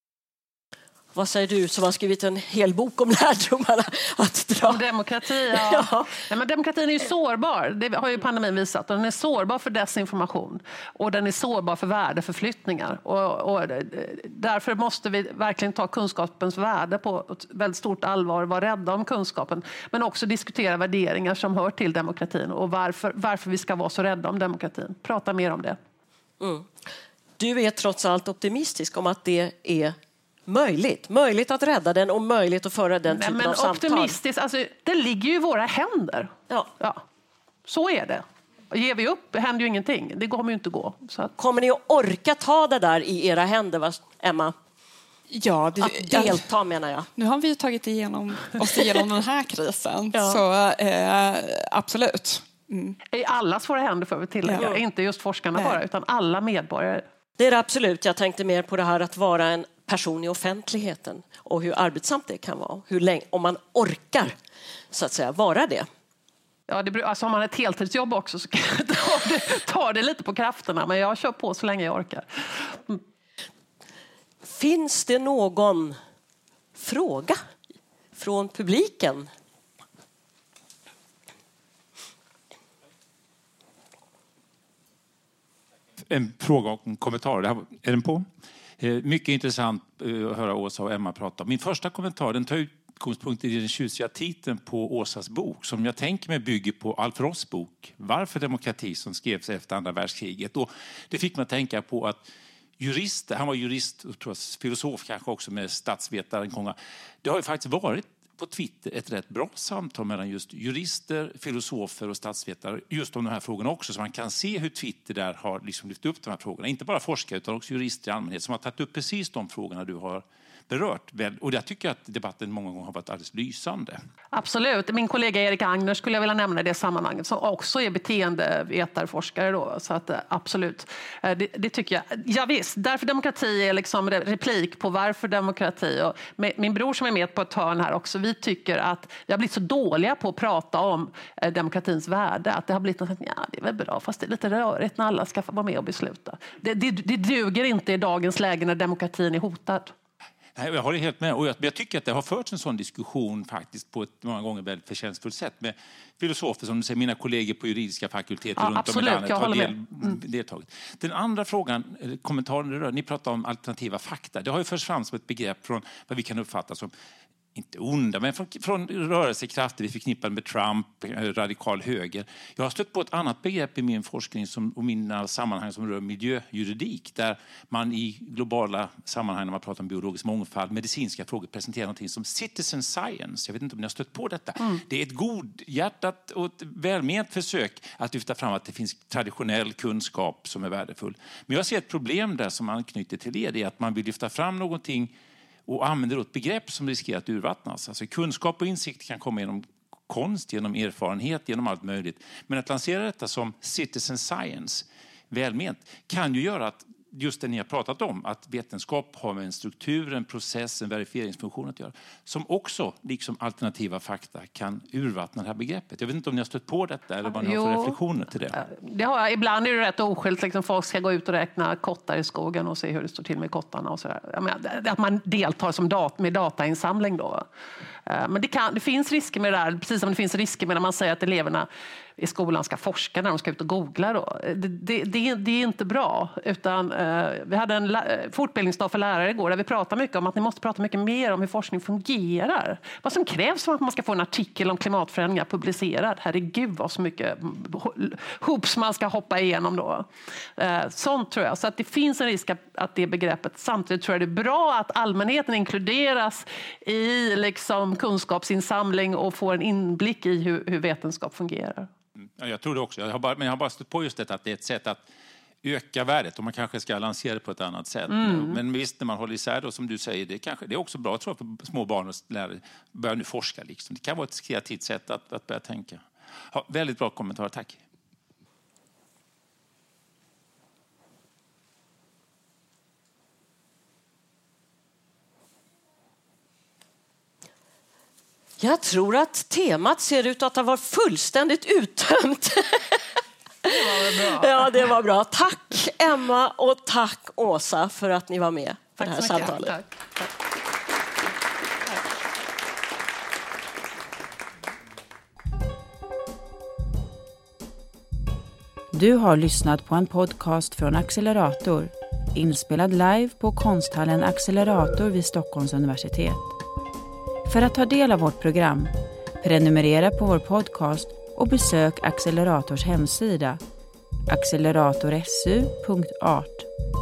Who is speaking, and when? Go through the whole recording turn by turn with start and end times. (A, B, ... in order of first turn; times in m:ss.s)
0:01.1-0:04.8 A
0:04.7-0:25.8 B
0:05.5-0:06.1 A
0:26.4-0:26.7 A
0:27.4-0:29.9 A
0:30.5-0:34.2 A
0:33.1-0:37.0 B
0:37.7-0:41.3 B
0:41.4-0:44.5 A
0:45.3-0:46.4 C
0:45.8-0:47.1 A
0:47.2-0:53.0 C
0:50.1-0:50.4 A
0:53.1-0:57.0 B
0:54.4-0:54.7 C
0:57.4-1:04.3 A
1:04.9-1:05.8 A
1:06.7-1:13.0 B
1:14.4-1:16.0 A
1:16.8-1:17.4 A
1:18.2-1:19.3 A
1:26.1-1:28.2 D
1:28.8-1:42.2 D
1:42.8-2:04.0 D
2:04.3-2:29.9 B
2:30.6-2:46.9 D
2:38.6-2:40.2 B
2:47.5-3:15.1 D
3:15.7-3:38.6 D
3:37.4-3:38.0 B
3:38.6-3:47.4 B
3:48.0-3:51.7 B
3:52.2-4:21.9 B
4:22.4-4:25.0 D
4:25.6-4:37.8 D
4:28.1-4:28.6 B
4:48.6-4:53.0 A
4:53.6-4:59.7 A
4:53.6-4:54.8 B
4:59.0-4:59.9 B
5:08.9-5:16.5 E
5:17.5-5:23.6 E
5:24.3-5:26.7 E